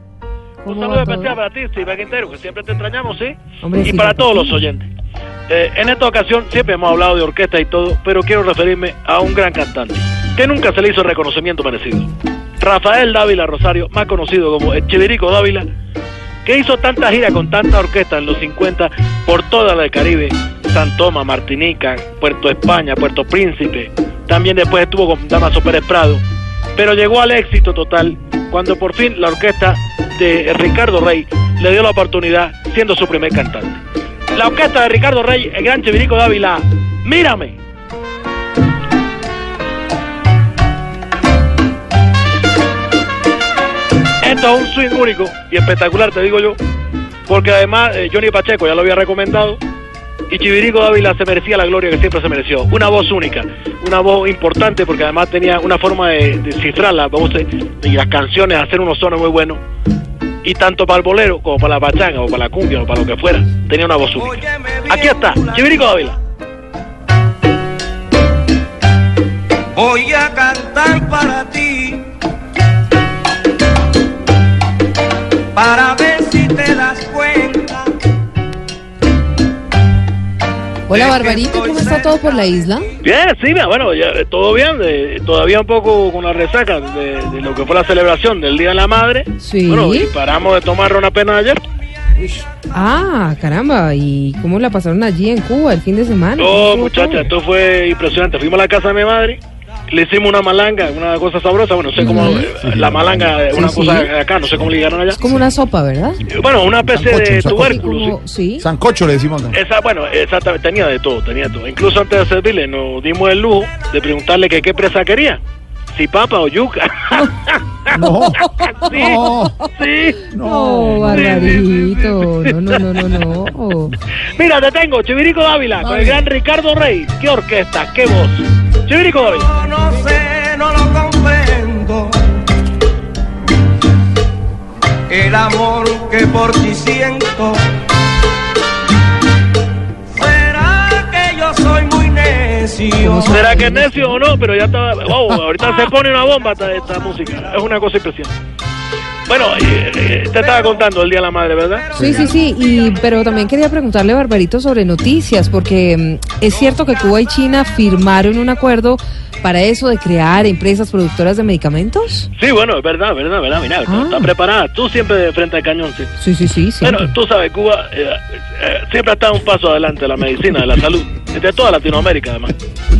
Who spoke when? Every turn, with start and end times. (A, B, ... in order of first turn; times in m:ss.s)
0:00.6-0:01.4 A
0:00.6-0:04.9 B
0:03.6-0:04.6 A
0:05.5-0:12.1 B
0:12.6-0:15.7 B
0:16.4-0:26.2 B
0:26.8-0:33.8 B
0:34.3-0:37.6 B
0:44.2-0:46.6 B
0:47.3-0:49.6 B
0:50.3-0:59.6 B
1:00.4-1:06.2 B
1:04.1-1:05.8 C
1:09.7-1:12.1 C
1:15.5-1:17.9 C
1:20.9-1:23.0 A
1:20.9-1:22.5 C
1:23.0-1:31.6 B
1:29.4-1:30.1 A
1:32.7-1:37.3 A
1:36.4-1:45.2 B
1:42.0-1:43.7 D
1:42.0-1:42.5 A
1:43.5-1:44.1 A
1:45.1-1:46.2 A
1:46.3-1:48.1 B
1:46.7-1:49.6 D
1:47.6-1:48.6 A
1:49.5-1:55.4 B
1:55.9-1:57.9 B
1:57.9-1:59.6 D
1:58.5-2:00.3 B
2:00.3-2:01.5 D
2:00.4-2:03.9 A
2:01.0-2:03.2 B
2:04.2-2:09.5 B
2:05.9-2:06.2 D
2:09.2-2:12.2 C
2:15.1-2:17.7 C
2:20.1-2:23.5 C
2:23.0-2:24.2 A
2:23.3-2:28.3 B
2:29.3-2:31.9 B
2:30.4-2:30.8 C
2:31.8-2:32.7 C
2:32.0-2:42.3 A
2:32.0-2:32.3 D
2:42.4-2:46.1 B
2:43.8-2:44.3 A
2:46.2-2:47.1 A
2:46.8-2:52.5 B